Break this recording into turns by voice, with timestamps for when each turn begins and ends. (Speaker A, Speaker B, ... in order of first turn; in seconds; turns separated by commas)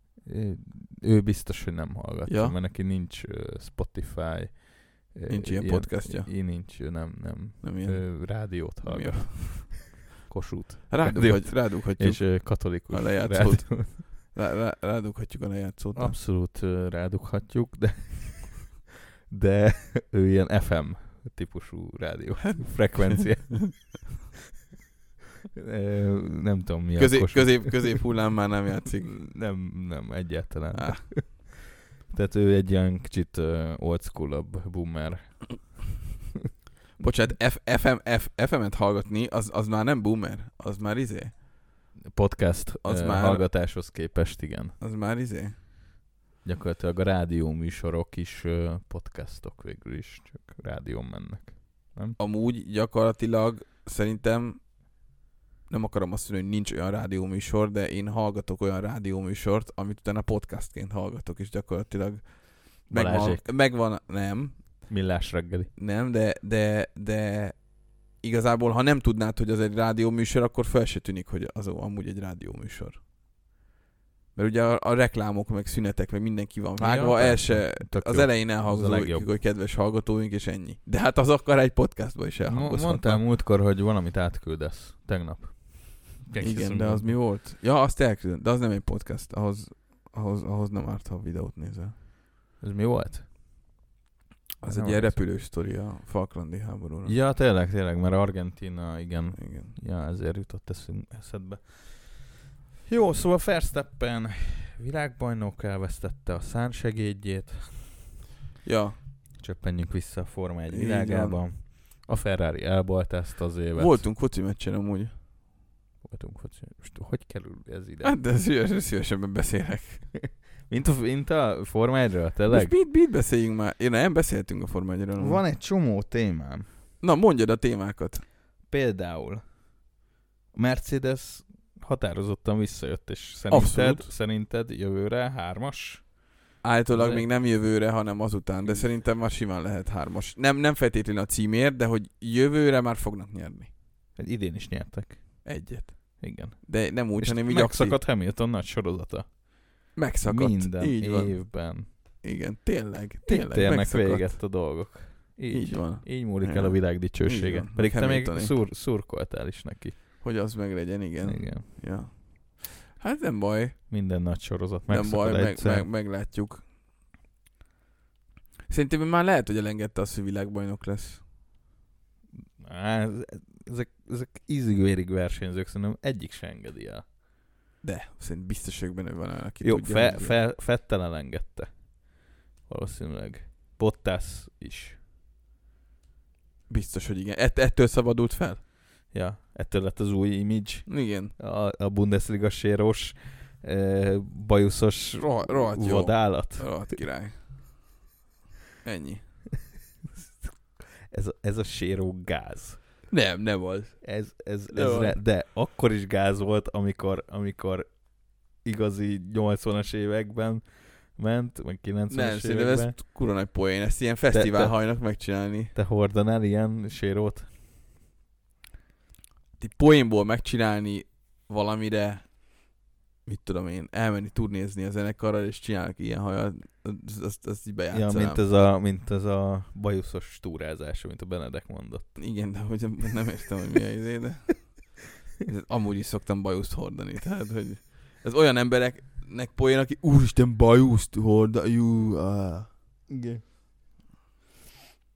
Speaker A: 0.2-13.9, Speaker B: 2.2-2.6, Speaker B: 5.3-6.3, Speaker B: 7.6-9.9, Speaker B: 10.9-16.2, Speaker A: 15.9-24.0, Speaker B: 22.4-22.8, Speaker A: 25.6-28.0, Speaker B: 26.9-29.2, Speaker A: 29.0-35.8, Speaker B: 30.7-31.1, Speaker B: 37.0-41.3, Speaker A: 42.1-44.8, Speaker B: 42.8-43.5, Speaker B: 44.8-45.6, Speaker A: 46.4-52.2, Speaker B: 52.2-54.6, Speaker B: 55.7-64.9, Speaker A: 62.9-63.6, Speaker A: 64.9-65.7, Speaker B: 65.8-73.0, Speaker B: 74.3-83.2, Speaker A: 76.8-79.3, Speaker A: 82.5-87.2, Speaker B: 86.4-91.9, Speaker A: 92.6-93.3, Speaker B: 94.6-97.1, Speaker A: 94.7-95.2, Speaker A: 97.0-102.3, Speaker B: 99.3-99.8, Speaker A: 102.9-108.1, Speaker B: 108.6-109.0, Speaker A: 109.4-114.0, Speaker B: 110.7-111.4, Speaker B: 113.8-115.1, Speaker A: 116.0-118.2, Speaker B: 118.0-120.0, Speaker A: 120.7-122.7, Speaker B: 122.5-125.4, Speaker A: 125.2-126.7, Speaker B: 127.0-128.2, Speaker A: 128.7-129.4, Speaker A: 130.5-136.2, Speaker B: 133.5-134.1, Speaker B: 136.6-143.7, Speaker A: 136.9-137.2, Speaker A: 144.2-145.5, Speaker B: 145.4-148.0, Speaker A: 146.2-149.4, Speaker B: 149.9-154.4, Speaker A: 150.2-151.9, Speaker A: 153.2-160.2, Speaker B: 155.5-158.6, Speaker B: 160.2-163.8, Speaker A: 161.2-161.7, Speaker A: 163.9-165.9, Speaker B: 164.9-166.6, Speaker B: 168.7-171.2, Speaker A: 172.6-177.0, Speaker B: 177.8-180.4, Speaker A: 179.6-181.7, Speaker A: 182.7-185.0, Speaker B: 186.7-188.6, Speaker A: 189.1-196.9, Speaker B: 190.9-191.3, Speaker B: 195.2-197.4, Speaker B: 198.8-199.2, Speaker A: 201.1-202.8, Speaker B: 203.1-204.0, Speaker A: 204.0-212.9, Speaker B: 204.7-205.2, Speaker B: 212.1-215.7, Speaker A: 214.3-214.8, Speaker A: 215.7-217.5, Speaker B: 219.6-222.5, Speaker B: 223.2-228.4, Speaker A: 227.9-232.2, Speaker B: 232.2-242.8, Speaker A: 243.1-243.4